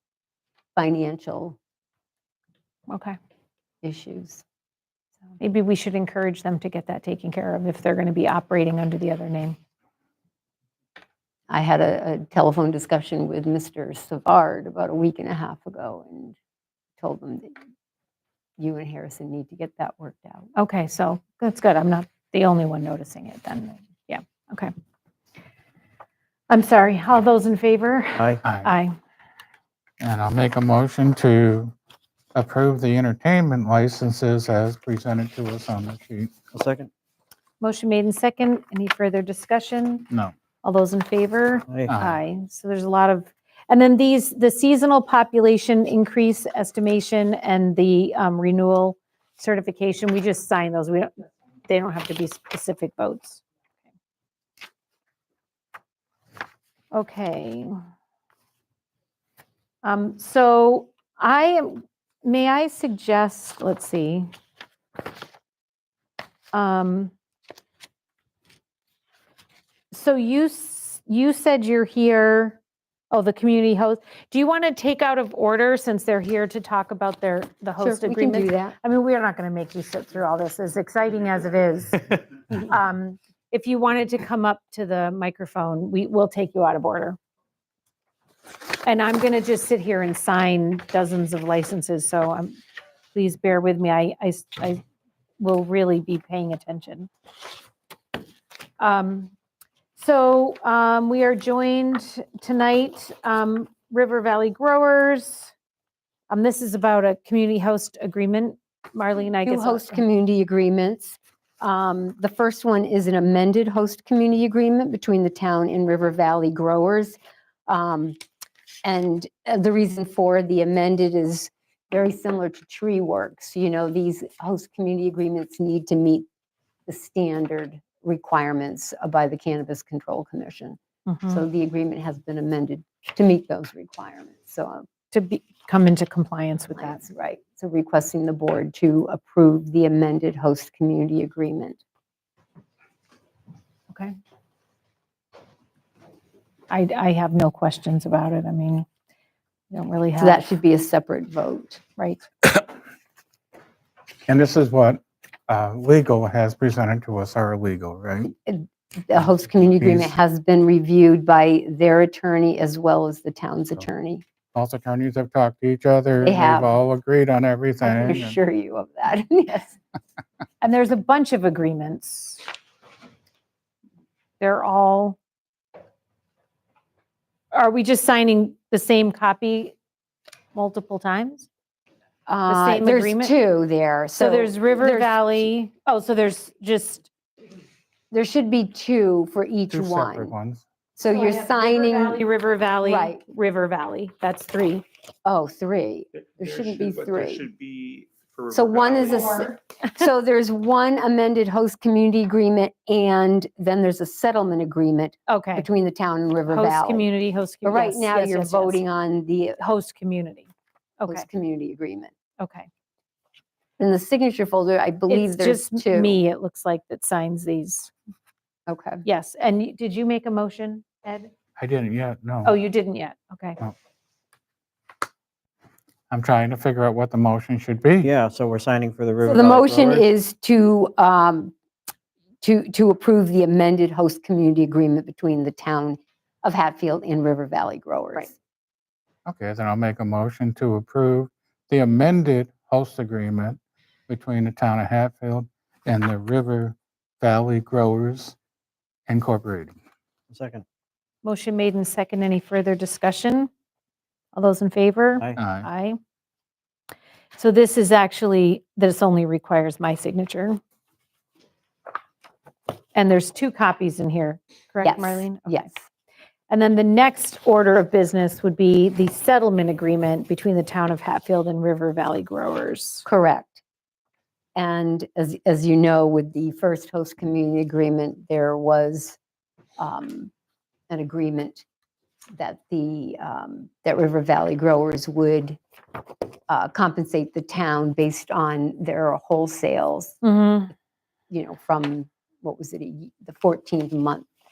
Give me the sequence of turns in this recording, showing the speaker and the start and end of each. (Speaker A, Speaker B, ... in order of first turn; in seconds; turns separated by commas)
Speaker A: 0.8-1.6, Speaker B: 2.9-3.2, Speaker A: 3.8-4.4, Speaker B: 5.4-9.6, Speaker A: 11.5-16.4, Speaker A: 17.0-17.5, Speaker A: 18.6-20.5, Speaker B: 20.6-24.7, Speaker B: 26.5-28.9, Speaker C: 28.4-28.7, Speaker C: 30.0-31.7, Speaker C: 32.3-36.3, Speaker D: 36.5-36.9, Speaker B: 37.6-40.1, Speaker B: 40.6-53.4, Speaker C: 41.9-42.2, Speaker B: 56.9-57.7, Speaker B: 59.8-64.3, Speaker B: 66.5-67.1, Speaker B: 69.9-72.6, Speaker B: 73.1-87.2, Speaker A: 77.8-78.8, Speaker B: 88.8-92.6, Speaker B: 93.1-94.8, Speaker B: 95.4-97.1, Speaker B: 98.8-99.3, Speaker B: 100.0-105.5, Speaker B: 106.3-110.0, Speaker A: 109.4-118.2, Speaker A: 118.8-126.3, Speaker A: 126.9-134.9, Speaker B: 131.1-131.4, Speaker B: 135.1-137.0, Speaker A: 136.8-141.8, Speaker B: 143.9-144.1, Speaker B: 146.7-148.8, Speaker B: 149.7-150.4, Speaker A: 150.2-151.8, Speaker B: 152.0-152.2, Speaker C: 154.3-158.3, Speaker A: 158.4-164.2, Speaker C: 159.8-160.1, Speaker C: 164.5-168.4, Speaker A: 166.2-166.7, Speaker A: 167.8-169.8, Speaker B: 170.6-172.4, Speaker B: 174.4-175.2, Speaker B: 177.5-179.7, Speaker B: 180.5-181.5, Speaker A: 182.3-185.5, Speaker B: 182.5-183.3, Speaker B: 184.2-187.1, Speaker A: 188.1-190.3, Speaker C: 189.7-190.6, Speaker A: 190.9-192.2, Speaker B: 191.1-194.8, Speaker A: 192.8-193.2, Speaker A: 195.2-197.4, Speaker E: 196.3-199.5, Speaker A: 198.5-207.1, Speaker B: 205.3-205.7, Speaker B: 206.5-208.8, Speaker A: 207.6-209.6, Speaker B: 209.6-211.2, Speaker A: 211.1-212.1, Speaker B: 212.4-212.7, Speaker A: 213.8-216.2, Speaker B: 215.1-217.9, Speaker A: 218.7-219.0, Speaker B: 219.0-221.3, Speaker C: 221.6-222.5, Speaker B: 222.4-223.6, Speaker C: 226.1-228.1, Speaker D: 228.0-230.1, Speaker A: 229.2-231.5, Speaker A: 232.4-238.3, Speaker C: 239.2-248.3, Speaker C: 249.1-249.7, Speaker D: 250.3-250.6, Speaker B: 251.2-253.5, Speaker B: 254.3-256.0, Speaker C: 255.3-255.7, Speaker B: 257.4-260.6, Speaker B: 262.9-265.7, Speaker A: 264.8-265.8, Speaker B: 266.5-273.0, Speaker A: 273.1-273.6, Speaker A: 274.5-279.2, Speaker A: 279.8-280.3, Speaker A: 280.9-281.6, Speaker A: 282.4-285.6, Speaker A: 286.5-290.2, Speaker B: 290.2-290.7, Speaker A: 291.3-294.3